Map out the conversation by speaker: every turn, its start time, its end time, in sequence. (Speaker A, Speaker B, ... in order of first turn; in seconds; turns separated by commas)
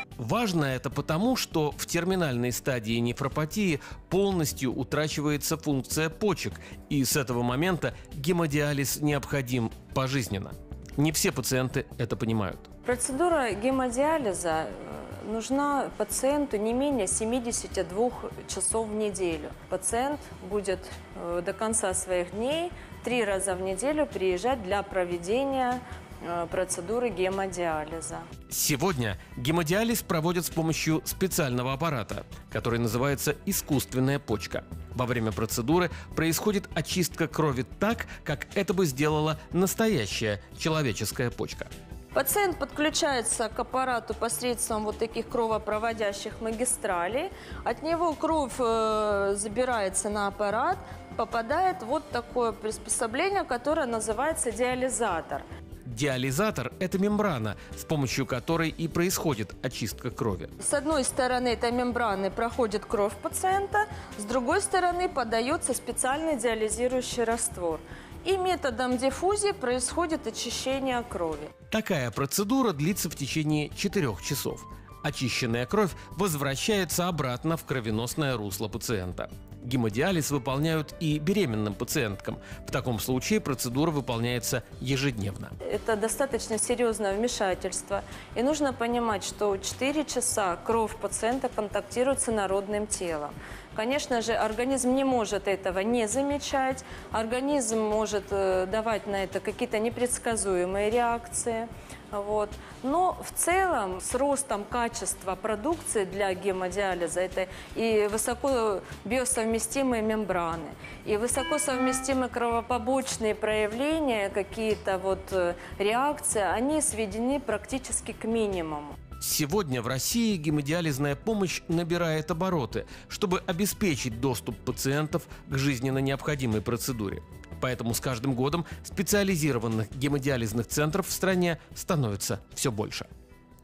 Speaker A: 0.2-12.7, Speaker B: 12.8-28.3, Speaker A: 28.5-41.7, Speaker B: 42.1-55.4, Speaker A: 55.8-60.5, Speaker B: 60.6-71.5, Speaker A: 71.7-85.5, Speaker B: 85.6-119.0, Speaker A: 119.2-133.1